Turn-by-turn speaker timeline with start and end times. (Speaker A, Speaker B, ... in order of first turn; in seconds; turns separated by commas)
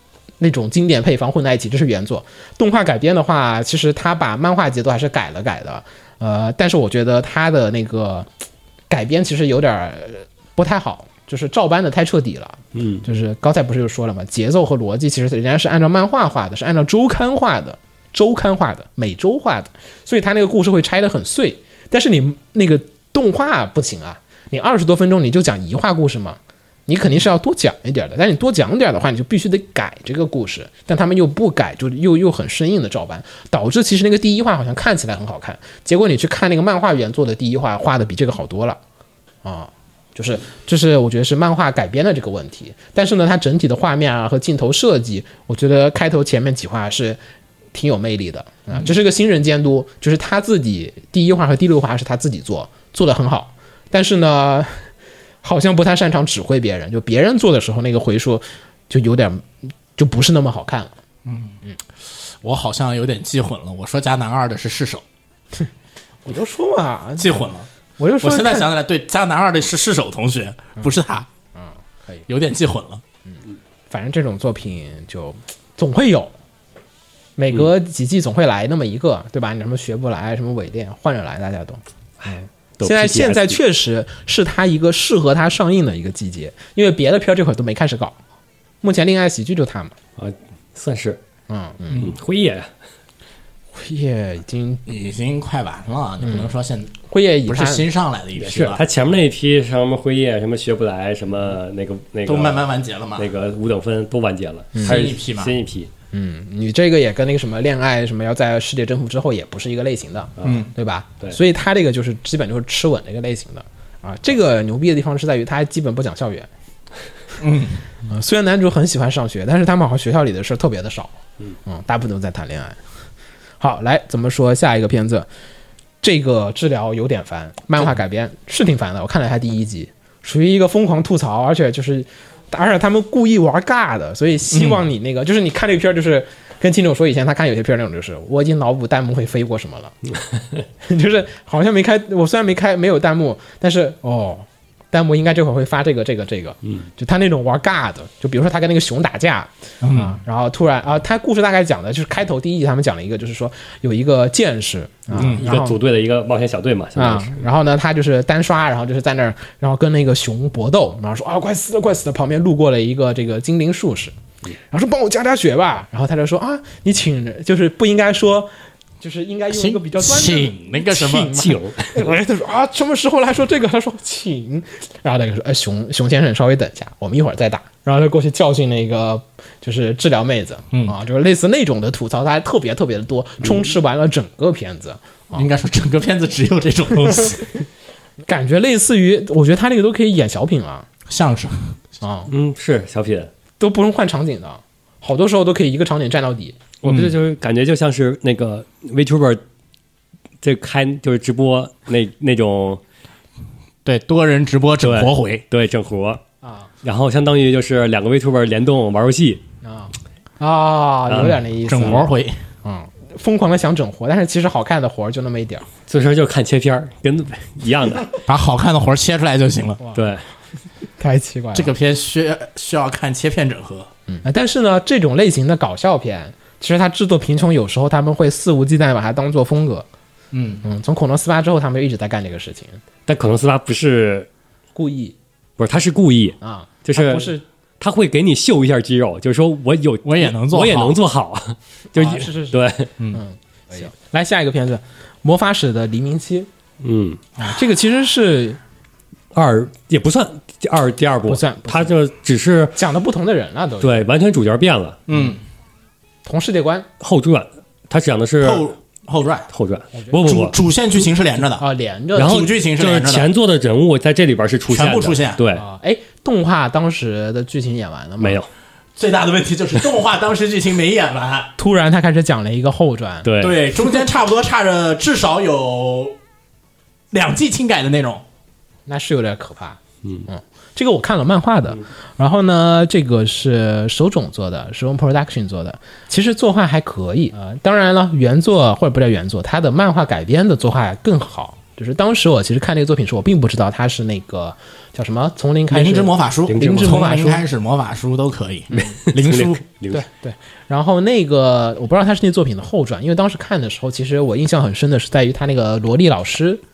Speaker A: 0.4-8.3, Speaker A: 8.9-38.8, Speaker B: 12.7-13.0, Speaker A: 39.4-47.2, Speaker A: 47.7-54.9, Speaker A: 55.4-61.0, Speaker C: 61.2-61.5, Speaker C: 62.4-65.0, Speaker A: 66.2-67.3, Speaker C: 67.2-67.7, Speaker A: 68.0-68.7, Speaker C: 68.2-71.3, Speaker A: 71.5-72.2, Speaker C: 72.3-73.0, Speaker A: 73.3-76.3, Speaker A: 77.4-81.8, Speaker B: 82.2-83.6, Speaker A: 82.8-88.2, Speaker A: 88.8-89.9, Speaker B: 90.2-91.2, Speaker A: 91.5-92.1, Speaker B: 92.0-92.7, Speaker A: 93.7-94.8, Speaker C: 94.9-96.9, Speaker A: 96.2-96.5, Speaker A: 97.1-97.8, Speaker C: 97.5-98.8, Speaker B: 98.4-102.6, Speaker C: 102.2-103.3, Speaker B: 103.2-105.9, Speaker C: 104.8-105.5, Speaker A: 106.1-116.5, Speaker B: 110.4-110.7, Speaker C: 110.4-110.7, Speaker C: 117.4-117.8, Speaker A: 118.0-122.8, Speaker A: 123.6-125.3, Speaker A: 126.0-139.9, Speaker C: 134.5-134.8, Speaker A: 140.8-155.8, Speaker C: 149.8-150.2, Speaker C: 155.2-155.4, Speaker B: 155.2-157.4, Speaker A: 156.9-164.1, Speaker A: 164.7-185.5, Speaker C: 169.5-171.3, Speaker B: 171.3-172.1, Speaker C: 185.3-187.5, Speaker A: 188.2-190.9, Speaker C: 191.1-191.7, Speaker A: 192.0-192.3, Speaker B: 192.3-193.3, Speaker A: 193.6-196.6, Speaker B: 196.8-199.4, Speaker C: 196.8-197.1, Speaker B: 200.4-202.8, Speaker C: 203.8-205.4, Speaker B: 204.8-206.2, Speaker A: 206.4-206.7, Speaker B: 206.8-209.4, Speaker A: 209.6-212.1, Speaker B: 211.1-211.3, Speaker C: 211.2-212.3, Speaker A: 212.6-215.7, Speaker B: 215.9-218.1, Speaker C: 218.3-219.8, Speaker A: 219.8-220.2, Speaker B: 219.9-220.2, Speaker A: 221.0-221.7, Speaker C: 221.5-223.9, Speaker A: 224.1-229.8, Speaker C: 230.3-230.6, Speaker A: 230.6-232.8, Speaker B: 233.1-234.3, Speaker A: 234.7-235.2, Speaker B: 235.6-242.9, Speaker A: 236.4-237.4, Speaker C: 240.0-240.9, Speaker A: 241.9-246.5, Speaker B: 246.8-247.2, Speaker A: 247.5-248.6, Speaker B: 249.3-252.8, Speaker A: 251.3-251.9, Speaker A: 252.7-254.0, Speaker B: 253.8-255.0, Speaker C: 255.1-255.4, Speaker A: 256.2-256.9, Speaker B: 257.0-258.7, Speaker C: 258.4-259.5, Speaker B: 259.5-260.5, Speaker C: 260.2-261.6, Speaker A: 261.6-262.5, Speaker B: 262.1-265.6, Speaker C: 262.2-263.3, Speaker C: 264.7-265.4, Speaker A: 265.5-268.4, Speaker B: 268.2-268.5, Speaker C: 268.9-271.5, Speaker A: 271.6-273.3, Speaker B: 273.2-273.6, Speaker C: 273.4-276.1, Speaker C: 277.1-278.2, Speaker A: 278.9-297.4, Speaker C: 295.7-299.6, Speaker B: 296.5-297.1, Speaker A: 298.7-299.0, Speaker B: 298.8-300.0, Speaker A: 299.9-306.6